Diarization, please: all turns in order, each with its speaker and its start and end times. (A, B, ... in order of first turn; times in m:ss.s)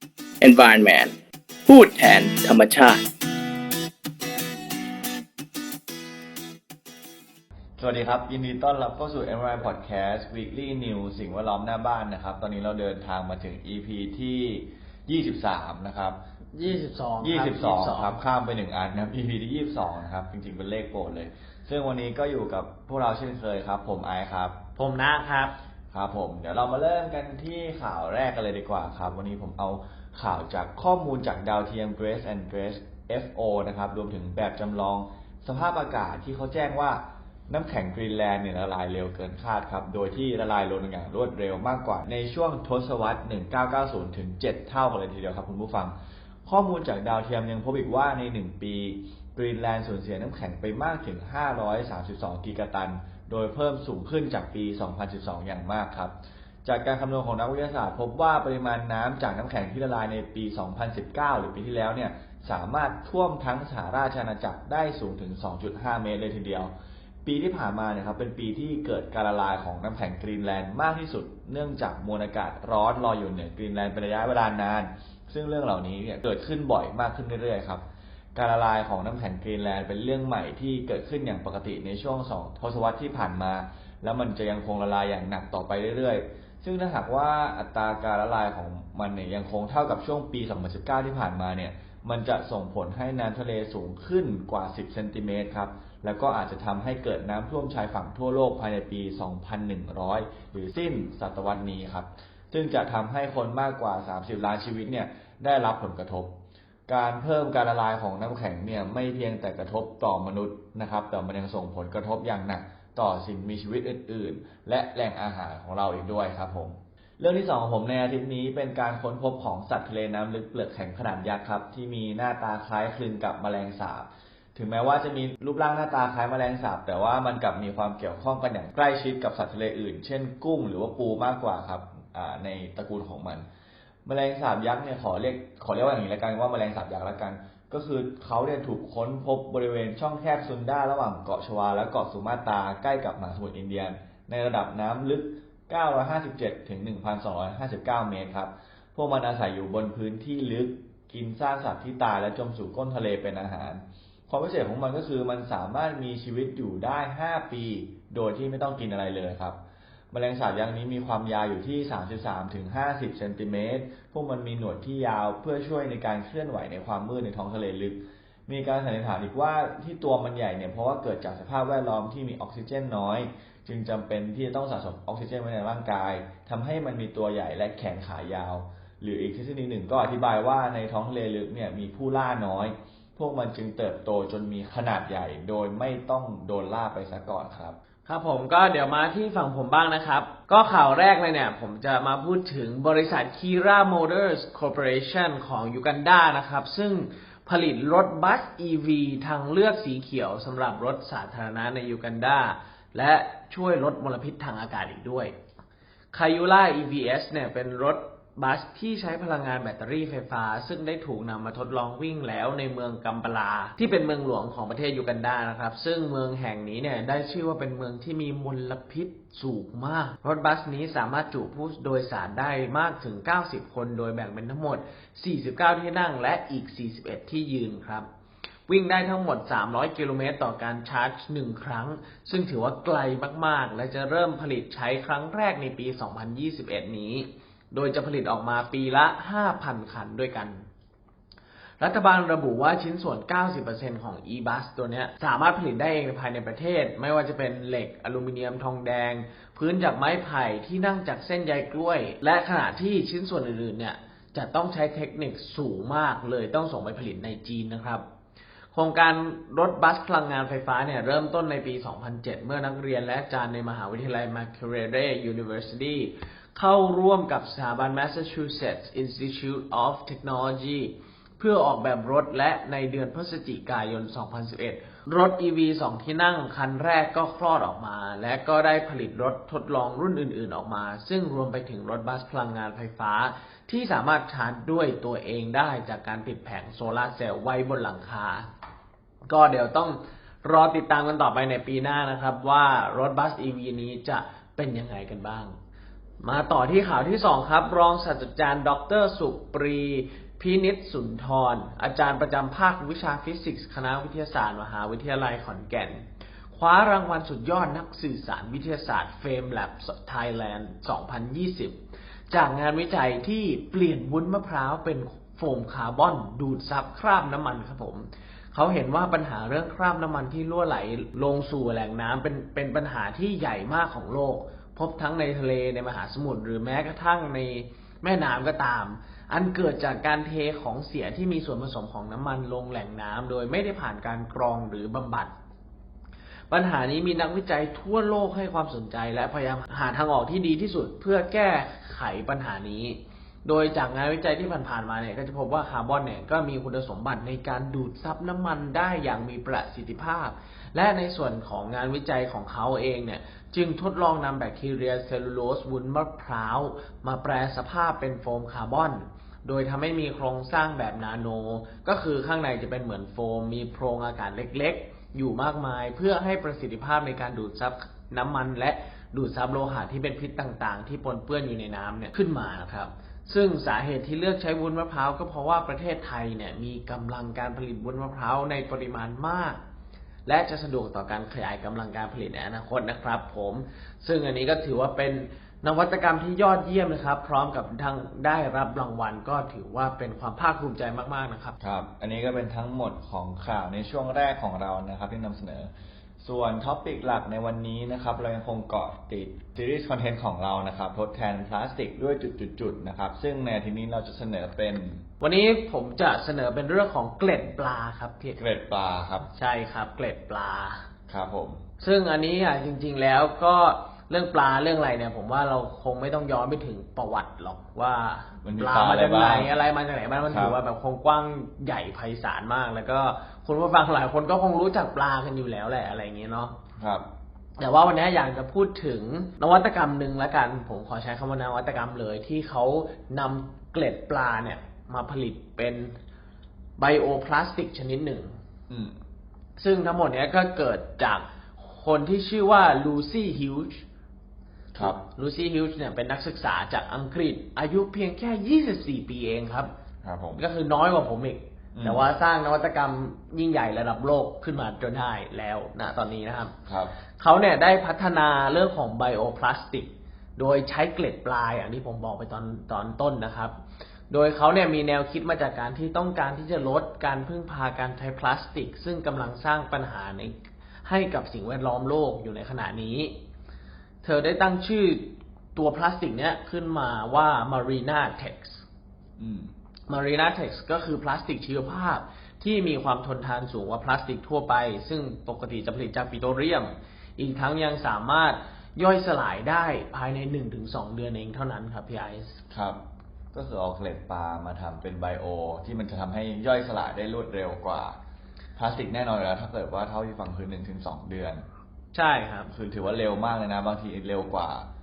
0:00.4-0:01.1 A
0:01.7-0:03.0 A
0:07.8-0:16.2 B
0:16.5-0:18.2 C
0:17.2-0:24.6 B
0:24.8-0:25.6 C
0:25.9-0:46.0 B
0:46.5-1:06.7 B
1:07.2-1:17.8 B
1:18.4-2:13.5 B
2:14.0-2:39.6 B
2:40.1-3:07.8 B
3:08.1-3:25.4 C
3:26.1-3:48.1 C
3:48.7-4:00.6 C
4:01.8-4:18.0 C
4:18.7-4:48.5 C
4:49.3-4:55.6 C
4:56.2-5:11.8 C
5:12.3-5:35.3 C
5:36.5-6:19.6 C
6:20.3-6:31.6 C
6:31.6-6:35.7 B
6:36.2-6:45.0 B
6:45.2-6:48.4 C
6:48.4-6:49.3 B
6:49.3-6:50.9 C
6:51.1-6:51.7 B
6:51.8-7:06.6 C
6:58.4-6:59.5 B
7:00.3-7:00.6 B
7:06.8-7:07.1 B
7:07.6-7:15.9 C
7:16.8-7:18.3 C
7:18.7-7:19.0 B
7:19.6-7:23.8 C
7:24.7-7:25.0 B
7:24.8-7:29.7 C
7:30.0-7:30.4 B
7:30.4-7:36.5 C
7:31.8-7:32.1 B
7:36.7-7:36.9 B
7:37.2-7:43.5 C
7:44.1-7:53.1 C
7:54.0-7:58.6 C
7:59.2-7:59.5 B
7:59.9-8:12.4 C
8:12.5-8:12.8 B
8:13.3-8:18.0 B
8:18.6-8:21.4 B
8:21.9-8:22.5 C
8:22.5-8:24.7 B